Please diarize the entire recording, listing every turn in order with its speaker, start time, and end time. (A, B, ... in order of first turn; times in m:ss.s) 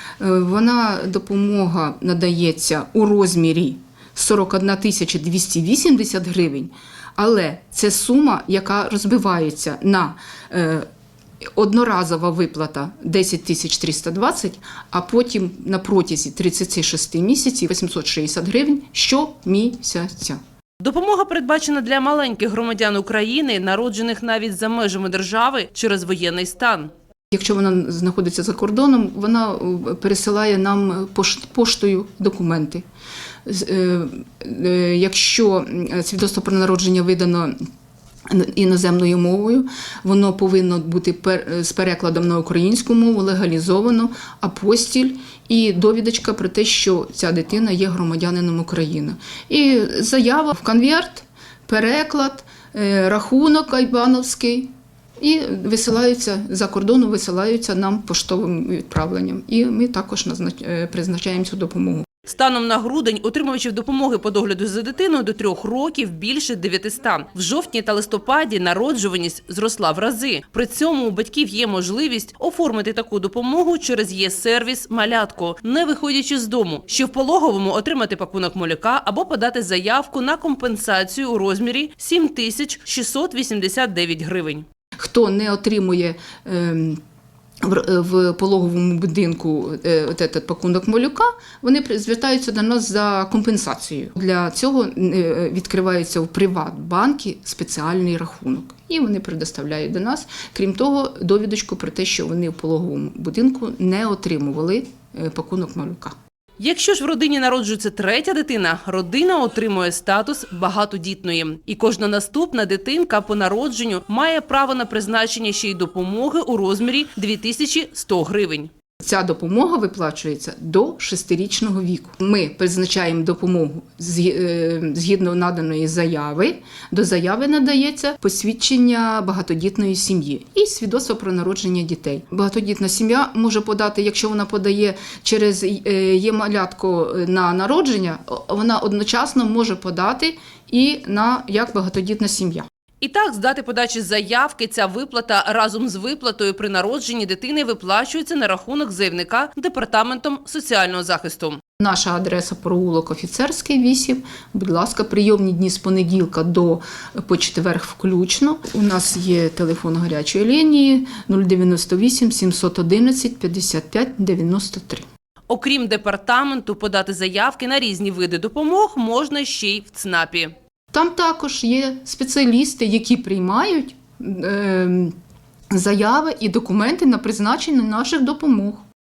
0:00.2-0:10.9 A
0:11.5-0:20.4 A
0:20.8-0:26.9 B
0:27.3-0:32.8 A
0:33.4-0:37.5 A
0:38.3-1:02.1 A
1:02.2-1:24.6 B
1:25.0-1:27.0 A
1:27.6-1:46.1 A
1:46.6-1:58.7 B
1:59.0-2:22.6 A
2:23.0-2:31.6 B
2:31.8-2:45.0 A
2:45.5-2:50.5 B
2:50.9-2:55.1 A
2:55.7-2:58.8 A